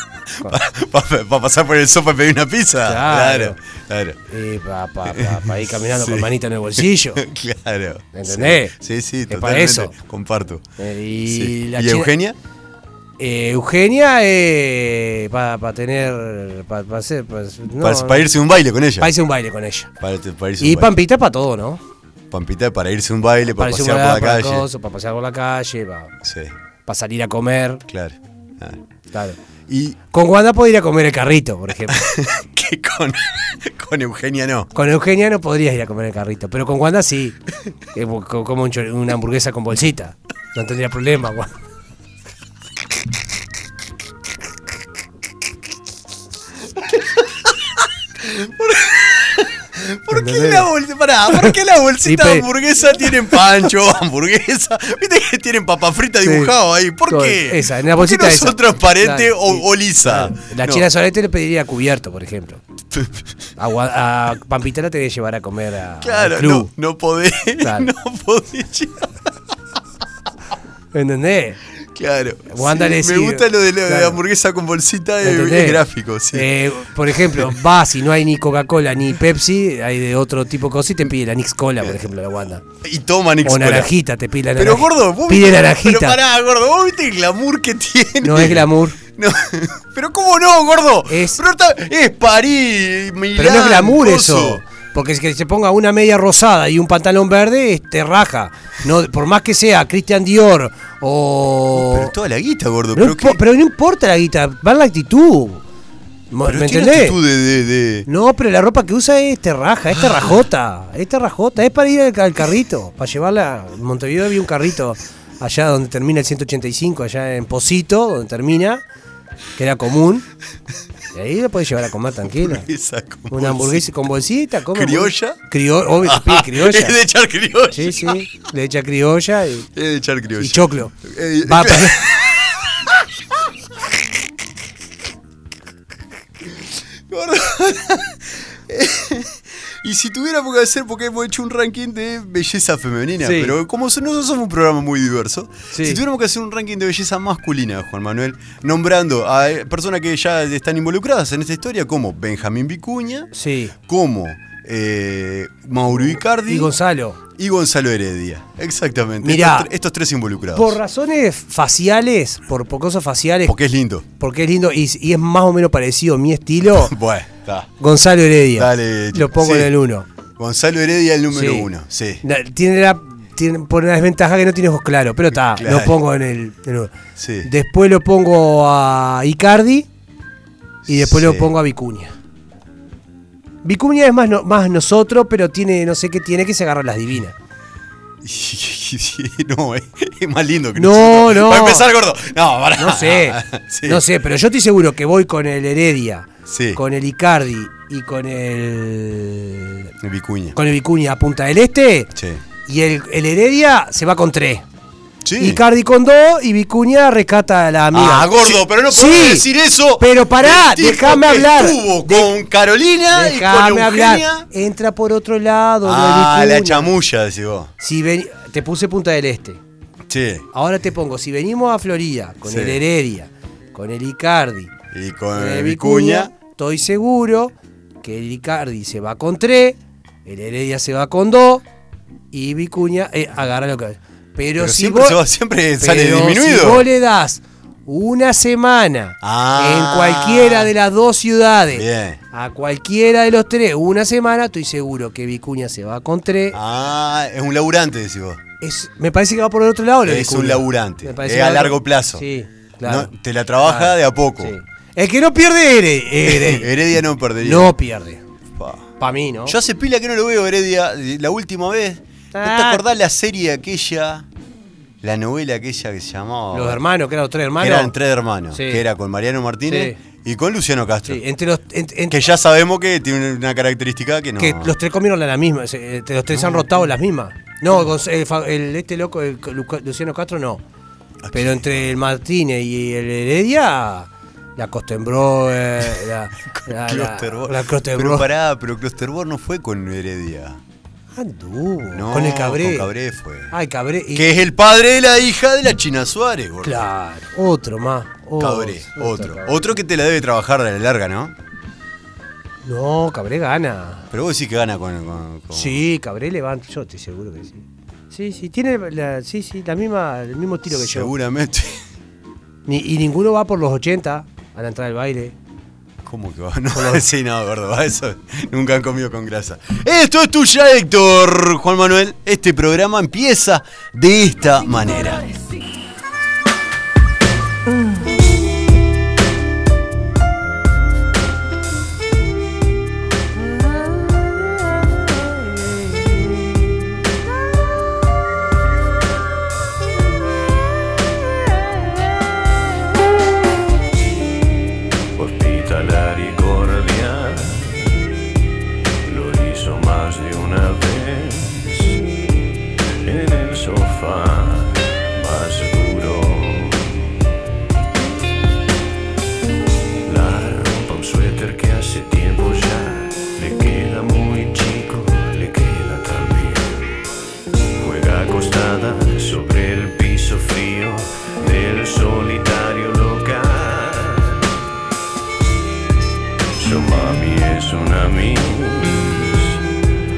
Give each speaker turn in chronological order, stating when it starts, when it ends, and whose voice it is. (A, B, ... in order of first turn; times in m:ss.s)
0:00.4-0:04.2 A
0:02.8-0:03.6 B
0:04.3-0:07.2 B
0:05.0-0:10.6 A
0:08.1-0:08.7 B
0:09.3-0:09.9 B
0:10.8-0:12.1 B
0:11.2-0:12.4 A
0:13.2-0:18.3 B
0:17.8-0:19.1 A
0:19.0-0:19.9 B
0:20.0-0:20.9 A
0:20.6-0:21.8 B
0:22.3-0:24.7 A
0:23.5-0:26.1 B
0:26.2-0:26.5 A
0:26.8-0:27.8 B
0:27.9-0:28.8 A
0:29.1-0:29.4 B
0:29.7-0:30.0 A
0:30.1-0:32.0 B
0:31.9-0:34.7 A
0:34.7-0:37.4 B
0:37.9-0:41.5 B
0:46.8-1:00.9 A
0:50.1-0:50.7 B
0:52.0-0:52.5 B
0:56.2-0:56.5 B
0:57.1-1:02.6 B
1:02.9-1:03.3 A
1:03.6-1:06.7 B
1:06.0-1:09.3 A
1:07.6-1:07.9 B
1:10.9-1:11.6 B
1:11.9-1:16.5 A
1:12.5-1:14.2 B
1:15.2-1:22.6 B
1:17.1-1:17.5 A
1:22.8-1:23.9 A
1:23.4-1:26.2 B
1:24.5-1:34.6 A
1:28.2-1:29.0 B
1:31.1-1:31.4 B
1:33.4-1:42.1 B
1:41.7-1:43.4 A
1:42.9-1:45.6 B
1:46.3-1:47.2 B
1:46.4-1:48.1 A
1:48.1-1:58.8 B
1:50.0-1:50.3 A
1:59.6-2:00.3 B
2:01.1-2:02.7 B
2:02.4-2:04.1 A
2:03.3-2:07.0 B
2:04.7-2:05.4 A
2:06.0-2:08.2 A
2:07.7-2:09.7 B
2:09.7-2:13.4 A
2:10.4-2:12.0 B
2:17.1-2:36.7 A
2:23.2-2:23.5 B
2:25.7-2:26.0 B
2:33.3-2:33.7 B
2:35.9-2:37.2 B
2:37.4-2:40.8 A
2:39.2-2:39.7 B
2:40.5-2:43.5 B
2:43.4-2:44.0 A
2:44.2-2:46.9 B
2:46.7-2:47.7 A
2:47.8-2:50.1 B
2:48.5-2:49.7 A
2:50.4-2:52.2 A
2:51.3-2:51.7 B
2:52.2-2:56.9 B
2:55.5-2:56.0 A
2:57.2-2:57.5 A
2:57.4-2:59.9 B
3:00.8-3:01.5 A
3:00.9-3:02.1 B
3:03.6-3:07.3 B
3:08.2-3:14.0 A
3:10.8-3:11.9 B
3:12.8-3:19.9 B
3:16.4-3:16.8 A
3:20.0-3:20.6 A
3:20.5-3:22.1 B
3:22.1-3:22.4 A
3:22.6-3:24.6 B
3:25.2-3:25.6 A
3:25.4-3:29.5 B
3:27.9-3:34.5 A
3:30.0-3:32.3 B
3:33.1-3:36.9 B
3:35.8-3:37.7 A
3:37.8-3:39.6 B
3:40.1-3:40.4 A
3:40.5-3:44.7 B
3:42.4-3:42.8 A
3:44.9-3:46.3 A
3:45.3-3:51.6 B
3:52.3-3:55.2 B
3:54.6-3:56.9 A
3:55.8-4:06.6 B
3:59.2-4:00.7 A
4:01.7-4:02.2 A
4:06.5-4:08.4 A
4:08.6-4:13.1 B
4:10.0-4:12.2 A
4:12.8-4:14.5 A
4:13.6-4:16.7 B
4:16.2-4:17.7 A
4:17.4-4:18.2 B
4:18.5-4:18.9 A
4:19.0-4:19.6 B
4:19.4-4:24.3 A
4:22.3-4:22.8 B
4:25.0-4:26.8 A
4:26.5-4:27.9 B
4:27.6-4:31.2 A
4:28.5-4:28.8 B
4:29.7-4:30.0 B
4:31.0-4:32.2 B
4:32.1-4:34.7 A
4:34.4-4:40.6 B
4:36.3-4:36.9 A
4:41.2-4:41.9 A
4:41.3-4:48.3 B
4:45.9-4:50.6 A
4:51.1-4:52.9 B
4:51.9-4:53.5 A
4:53.5-4:54.3 B
4:54.1-4:56.9 A
4:56.6-4:59.7 B
4:58.4-5:01.3 A
5:02.6-5:04.1 B
5:04.1-5:05.8 A
5:05.5-5:11.1 B
5:10.7-5:11.8 A
5:12.6-5:15.3 B
5:16.0-5:25.2 A
5:16.7-5:17.0 B
5:45.1-5:48.1 C
5:49.0-5:52.0 C
5:53.0-5:57.1 C
6:00.0-6:07.0 C
6:07.8-6:14.5 C
6:16.6-6:19.6 C